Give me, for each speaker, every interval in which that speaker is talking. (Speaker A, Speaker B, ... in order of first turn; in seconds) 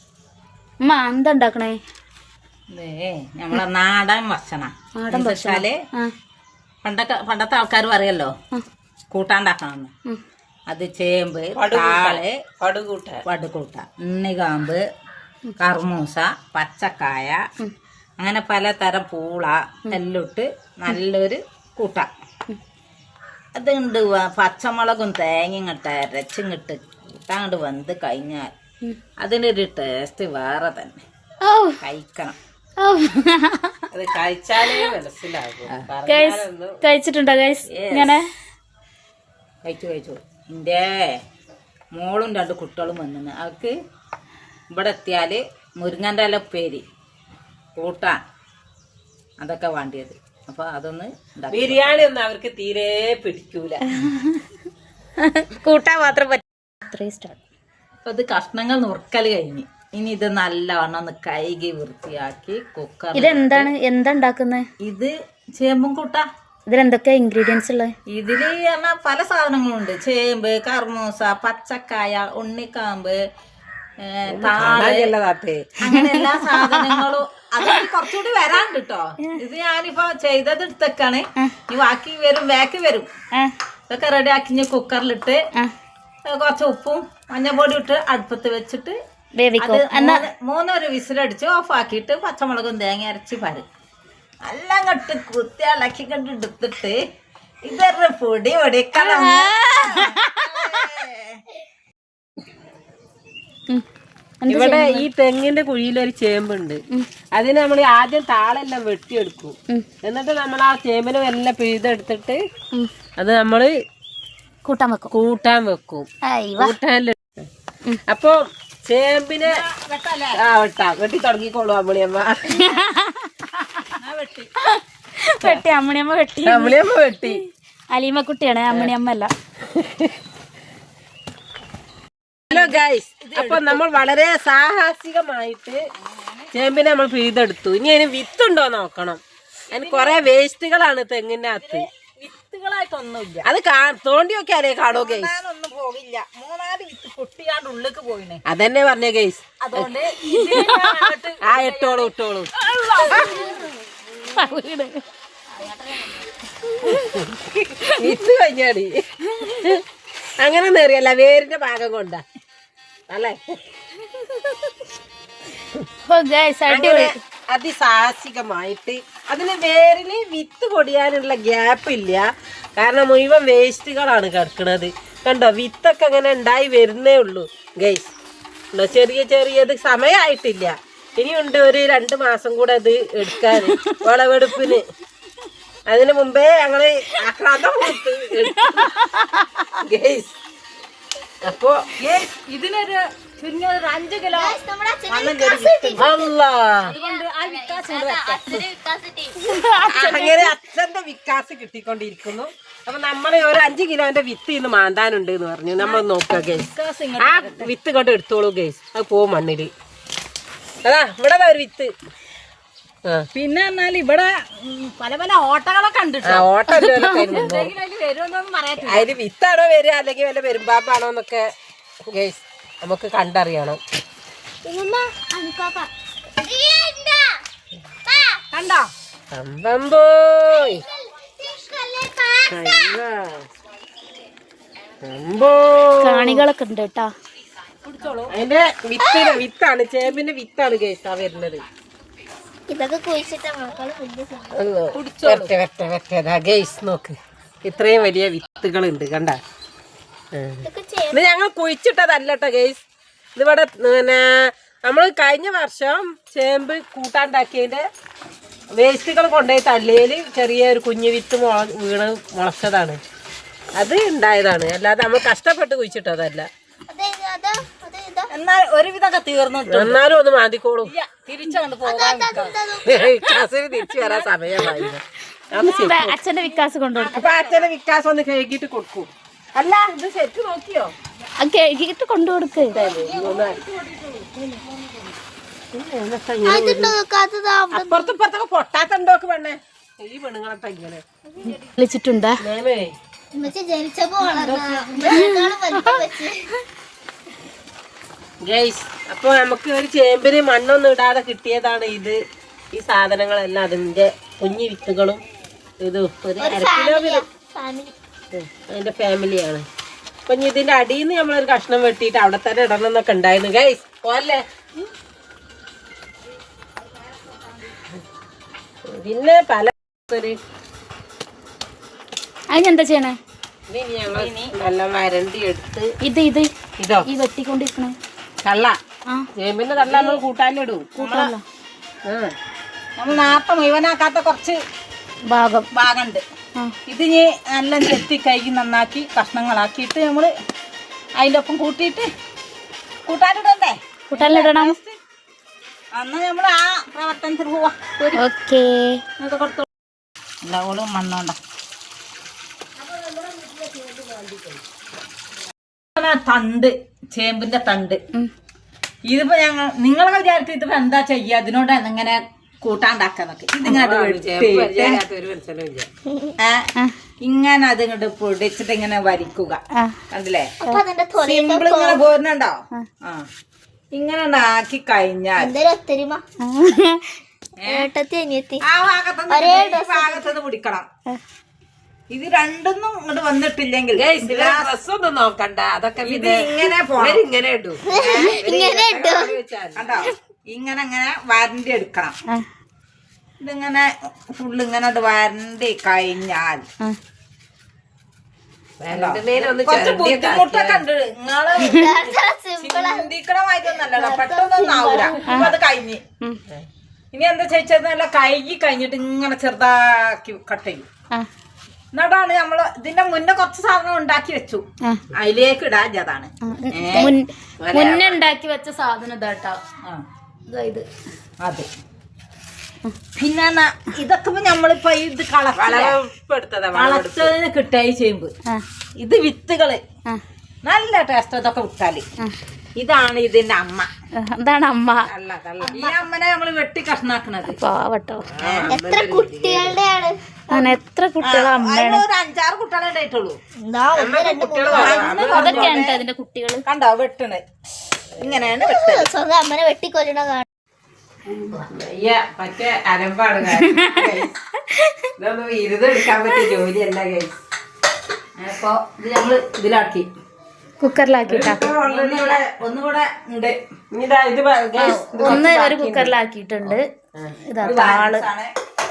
Speaker A: 0.8-1.8, 5.0-6.1, 31.4-31.8, 32.8-33.7, 36.1-38.2, 53.9-54.3, 55.3-57.4, 63.1-64.6, 66.7-67.9, 76.4-76.9, 89.4-90.2, 99.0-100.4, 104.4-105.0, 114.6-115.1, 116.2-116.7, 122.5-123.3, 125.3-127.3, 127.9-129.3, 154.3-155.0, 166.1-167.2, 199.5-200.1, 216.7-217.1, 236.0-237.1, 275.6-277.2, 281.4-282.7, 291.4-292.4, 295.1-296.0, 322.5-323.1, 326.0-326.5, 327.0-327.9, 331.0-331.4, 335.3-335.6, 344.1-344.7, 348.1-349.0, 376.4-377.1, 405.2-405.5, 416.5-419.6, 420.5-420.9, 434.2-435.1, 437.5-438.2, 440.5-442.0, 445.3-446.6, 453.6-454.1, 460.8-461.7, 464.8-466.8, 467.4-468.2
Speaker B: 2.7-5.8, 6.8-8.3, 9.1-9.9, 10.7-12.4, 13.2-14.8, 15.6-17.4, 18.2-22.1, 23.5-28.5, 29.2-31.0, 31.8-32.4, 37.7-38.1, 39.6-41.2, 41.9-43.7, 44.7-46.8, 47.8-48.2, 49.4-52.1, 58.0-63.7, 64.8-66.2, 68.1-73.2, 74.0-75.1, 75.8-83.1, 83.9-85.4, 86.3-89.0, 89.6-93.6, 94.4-97.0, 97.6-101.4, 119.4-120.4, 124.0-124.5, 132.5-133.8, 136.0-136.5, 139.7-140.2, 141.6-143.5, 144.9-148.4, 149.6-153.5, 155.6-156.2, 192.0-194.6, 195.1-196.2, 196.8-198.4, 199.9-200.3, 205.8-207.7, 213.3-216.5, 217.2-219.1, 228.5-228.9, 238.0-238.3, 244.9-245.5, 268.3-270.0, 270.8-272.5, 274.0-274.7, 276.9-277.7, 283.1-284.4, 324.1-324.5, 329.8-330.2, 331.0-331.3, 333.0-334.6, 335.7-336.2, 336.9-340.3, 341.1-342.1, 343.1-345.0, 345.9-348.2, 349.2-349.6, 350.4-351.4, 356.0-358.0, 359.1-365.0, 366.4-366.7, 367.2-369.6, 370.1-370.5, 371.2-373.2, 373.9-375.5, 377.6-377.9, 378.6-380.9, 382.1-384.7, 386.0-387.2, 387.9-388.4, 389.8-392.1, 393.4-396.6, 398.9-402.0, 402.6-406.0, 407.1-410.9, 411.9-417.1, 421.4-421.7, 423.1-426.0, 426.7-428.3, 429.0-429.8, 430.6-432.0, 432.8-433.9, 435.6-437.6, 438.4-438.7, 441.2-443.4, 444.7-446.0, 446.6-447.4, 448.2-449.1, 458.4-460.0, 461.8-463.6, 467.6-468.5
Speaker C: 11.6-13.2, 33.9-36.8, 51.5-53.9, 74.3-75.7, 104.5-106.8, 107.3-112.4, 113.2-113.7, 115.1-116.1, 116.6-117.3, 118.1-119.6, 120.4-122.7, 126.4-127.4, 129.8-130.1, 132.5-135.8, 136.5-141.8, 143.4-145.3, 148.4-149.9, 151.4-153.5, 156.9-159.8, 160.4-162.2, 163.1-163.6, 166.7-172.2, 172.8-178.1, 178.7-184.8, 185.9-188.9, 189.8-190.3, 191.4-191.8, 196.0-196.9, 199.6-209.7, 210.8-211.9, 216.2-217.7, 218.8-221.5, 222.1-223.8, 229.3-230.8, 232.5-233.4, 235.0-236.4, 237.9-241.6, 244.5-249.4, 250.3-252.8, 253.3-254.2, 254.8-257.8, 258.8-263.0, 263.8-266.5, 269.7-270.9, 272.8-276.2, 277.1-280.9, 282.6-283.6, 285.7-286.9, 287.7-291.0, 292.4-292.9, 294.2-295.2, 298.4-302.2, 302.7-305.2, 305.8-307.2, 308.3-309.6, 310.3-314.4, 318.9-320.4, 323.7-325.9, 326.8-327.1, 328.4-328.8, 329.4-330.9, 332.1-332.3, 363.6-365.9, 383.9-389.9, 398.8-400.8, 417.6-418.2, 425.5-427.3, 435.1-435.9, 438.3-439.8, 443.9-445.8, 451.3-454.3, 455.2-457.4, 459.7-460.0, 461.3-462.5, 463.9-467.4
Speaker D: 194.3-196.3, 197.0-199.4, 224.6-227.4, 228.1-228.4, 230.7-232.9, 239.0-239.4, 242.7-244.6, 250.6-251.2, 266.9-268.3, 271.8-273.1, 286.4-288.1, 293.3-296.4, 306.4-307.9, 370.6-372.0, 375.4-376.2, 377.7-378.6, 379.3-380.4, 387.8-389.4, 401.6-403.1, 403.9-405.5, 438.7-440.8, 443.6-445.1, 448.6-450.4